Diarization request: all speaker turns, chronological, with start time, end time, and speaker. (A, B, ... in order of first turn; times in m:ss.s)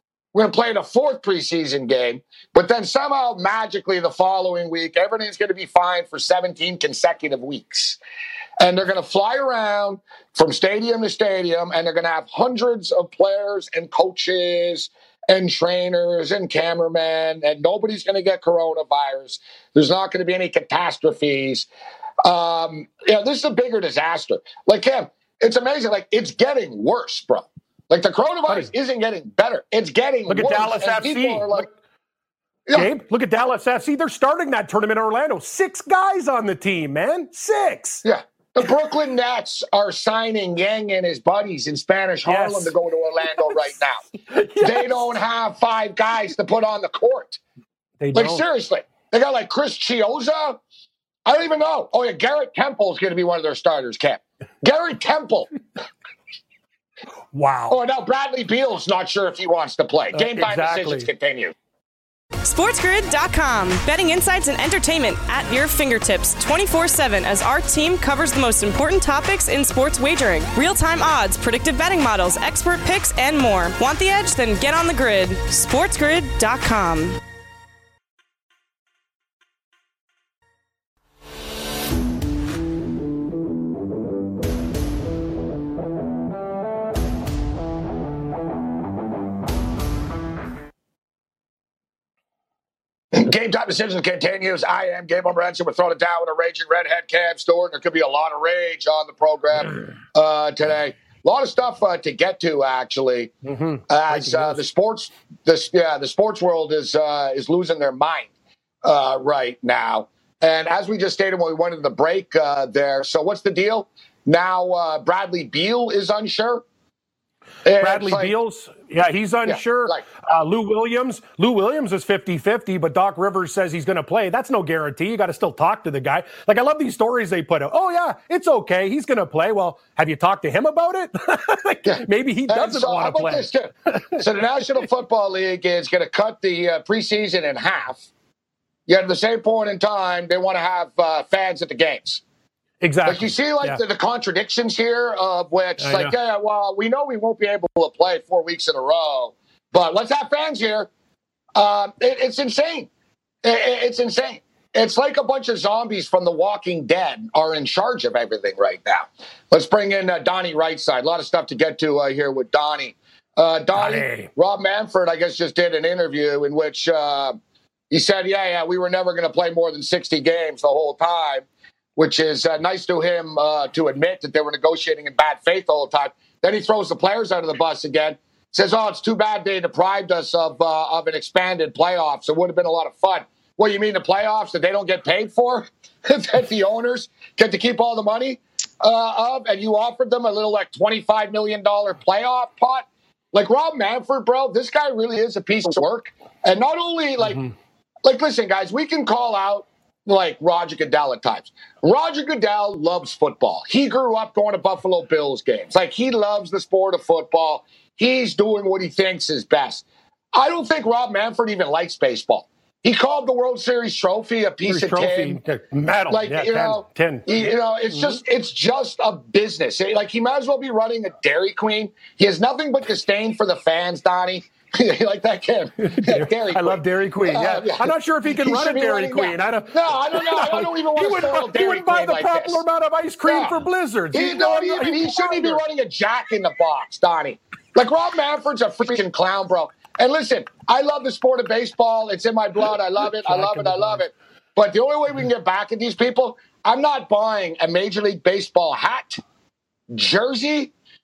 0:00.3-0:08.0 A
0:08.6-0:21.7 A
0:22.2-0:31.7 A
0:30.3-0:31.6 B
0:32.7-0:38.0 B
0:38.0-0:44.0 A
0:42.2-0:42.7 B
0:44.3-0:45.1 B
0:44.6-0:47.4 A
0:48.0-0:48.4 B
0:48.1-0:50.6 A
0:51.2-0:55.5 A
0:57.3-0:57.8 B
0:57.7-1:01.5 A
1:00.1-1:01.1 B
1:02.4-1:17.2 C
1:33.1-1:43.3 A
1:43.4-1:44.6 B
1:43.9-1:48.3 A
1:48.8-1:56.6 A
1:57.6-1:58.3 A
1:57.8-2:14.2 B
1:59.4-2:00.0 A
2:11.8-2:18.0 A
2:18.9-2:22.2 A
2:22.8-2:23.8 B
2:23.0-2:30.9 A
2:25.8-2:26.1 B
2:31.6-2:32.9 A
2:33.4-2:47.4 A
2:43.7-2:44.3 B
2:47.9-2:51.4 A
2:52.0-3:17.4 A
3:17.2-3:17.5 B
3:18.0-3:35.4 A
3:34.6-3:38.2 B
3:36.1-3:52.6 A
3:45.8-3:55.6 B
3:53.2-4:09.2 A
4:03.2-4:04.0 B
4:09.9-4:10.7 A